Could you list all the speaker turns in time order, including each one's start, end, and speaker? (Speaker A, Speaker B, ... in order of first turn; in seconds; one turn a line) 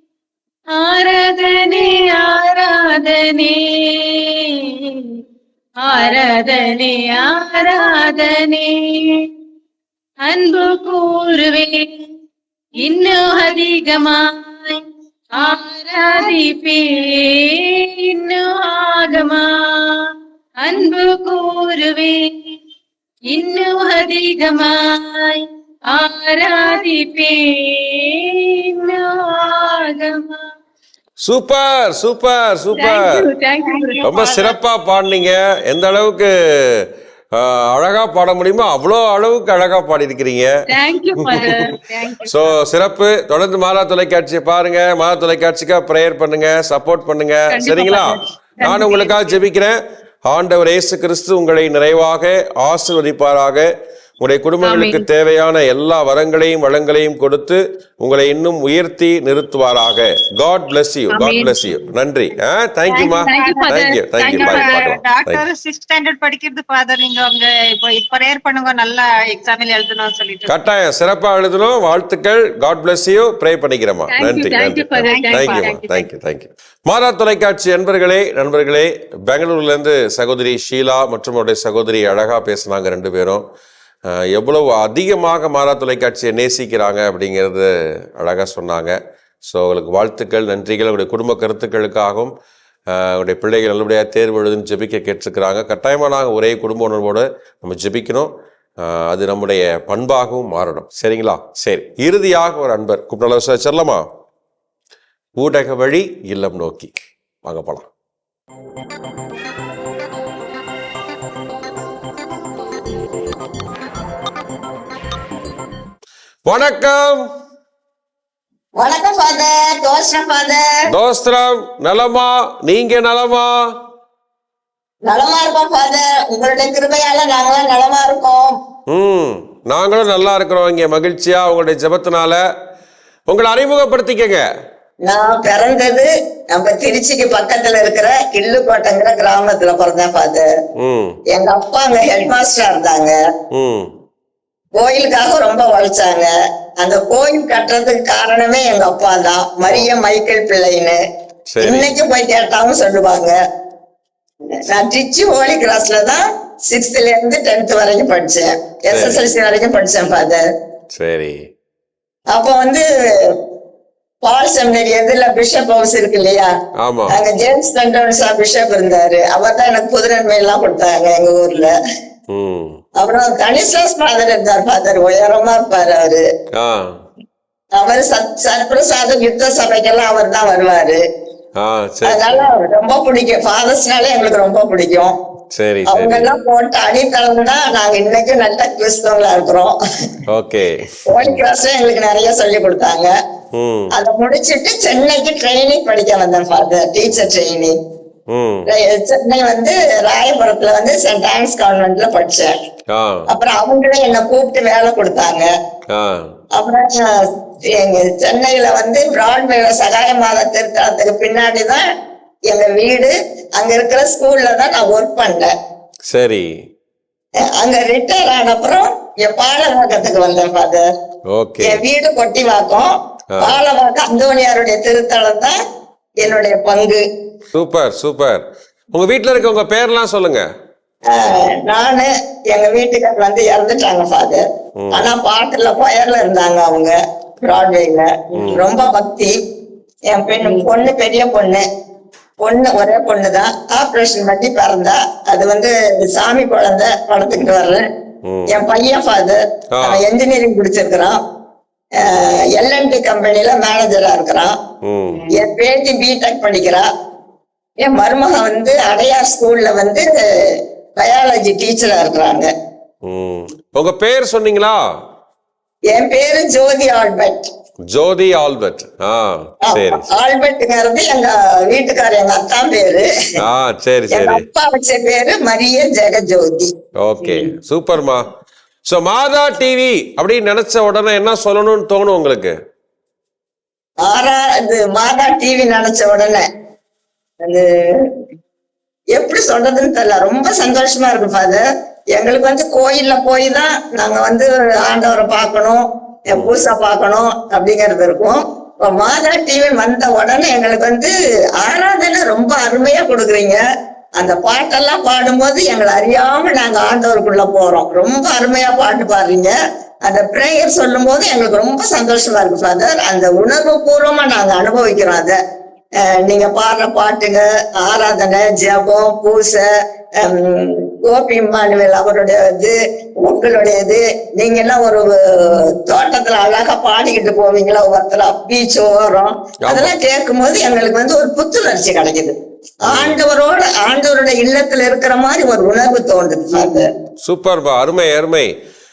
Speaker A: 0.7-5.0
Speaker A: 5.8-9.2
Speaker A: 10.2-11.9
Speaker A: 12.8-14.8
Speaker A: 15.3-20.0
Speaker A: 20.6-22.2
Speaker A: 23.3-30.4
Speaker B: 31.2-33.0
Speaker A: 32.7-34.0
Speaker C: 33.6-34.5
Speaker B: 34.0-40.5
Speaker A: 40.7-41.8
Speaker C: 41.4-42.5
Speaker B: 42.3-49.8
Speaker A: 47.5-49.3
Speaker B: 50.3-53.7
Speaker B: 54.2-65.4
Speaker A: 54.6-55.0
Speaker A: 61.2-61.5
Speaker C: 62.9-70.5
Speaker A: 63.0-64.8
Speaker B: 70.5-83.4
Speaker A: 74.1-75.9
Speaker C: 75.0-75.9
Speaker B: 84.1-92.3
Speaker B: 92.9-98.3
Speaker B: 98.8-104.0
Speaker B: 105.4-106.9
Speaker B: 107.4-107.9
Speaker B: 116.5-117.2
Speaker D: 118.8-120.6
Speaker B: 120.9-123.5
Speaker D: 125.0-128.5
Speaker B: 128.9-132.4
Speaker B: 133.3-134.4
Speaker D: 135.1-140.4
Speaker B: 140.8-141.2
Speaker D: 141.3-143.1
Speaker B: 143.5-143.9
Speaker D: 144.8-146.3
Speaker D: 146.8-151.0
Speaker B: 151.5-151.9
Speaker D: 151.6-153.3
Speaker D: 154.6-160.4
Speaker B: 158.9-159.2
Speaker B: 160.9-161.4
Speaker D: 162.3-162.8
Speaker D: 164.2-166.5
Speaker B: 166.8-167.2
Speaker D: 167.1-171.7
Speaker B: 172.3-172.8
Speaker D: 173.0-176.2
Speaker B: 176.6-177.0
Speaker D: 177.8-181.0
Speaker B: 181.6-182.5
Speaker D: 182.1-185.1
Speaker B: 185.5-186.3
Speaker D: 185.9-189.7
Speaker B: 190.3-191.4
Speaker D: 191.1-193.1
Speaker B: 193.5-193.9
Speaker D: 193.9-197.7
Speaker B: 198.3-198.7
Speaker D: 198.7-202.5
Speaker B: 202.9-203.2
Speaker D: 203.3-205.4
Speaker B: 205.9-206.3
Speaker D: 206.6-207.2
Speaker D: 207.7-211.8
Speaker D: 212.5-215.5
Speaker B: 216.1-216.5
Speaker D: 217.6-220.8
Speaker B: 221.3-221.8
Speaker D: 221.6-225.5
Speaker D: 226.2-227.0
Speaker B: 227.5-230.4
Speaker D: 231.1-239.3
Speaker B: 234.8-235.1
Speaker B: 238.4-238.6
Speaker D: 240.1-241.6
Speaker D: 242.4-247.8
Speaker B: 248.2-248.5
Speaker D: 248.5-251.2
Speaker B: 249.8-250.0
Speaker D: 252.0-254.5
Speaker B: 254.8-255.3
Speaker D: 255.3-256.9
Speaker D: 257.8-260.1
Speaker D: 261.0-262.5
Speaker B: 263.0-264.8
Speaker D: 265.9-267.5
Speaker B: 267.9-270.1
Speaker D: 269.7-273.1
Speaker B: 273.4-274.4
Speaker D: 274.1-277.5
Speaker B: 277.0-278.3
Speaker B: 278.9-282.5
Speaker D: 284.1-286.4
Speaker D: 289.1-291.6
Speaker D: 292.1-303.6
Speaker D: 304.2-309.5
Speaker D: 310.1-315.4
Speaker D: 316.1-319.6
Speaker D: 320.2-332.3
Speaker B: 329.6-329.9
Speaker D: 332.9-336.9
Speaker B: 332.9-333.2
Speaker B: 337.2-338.5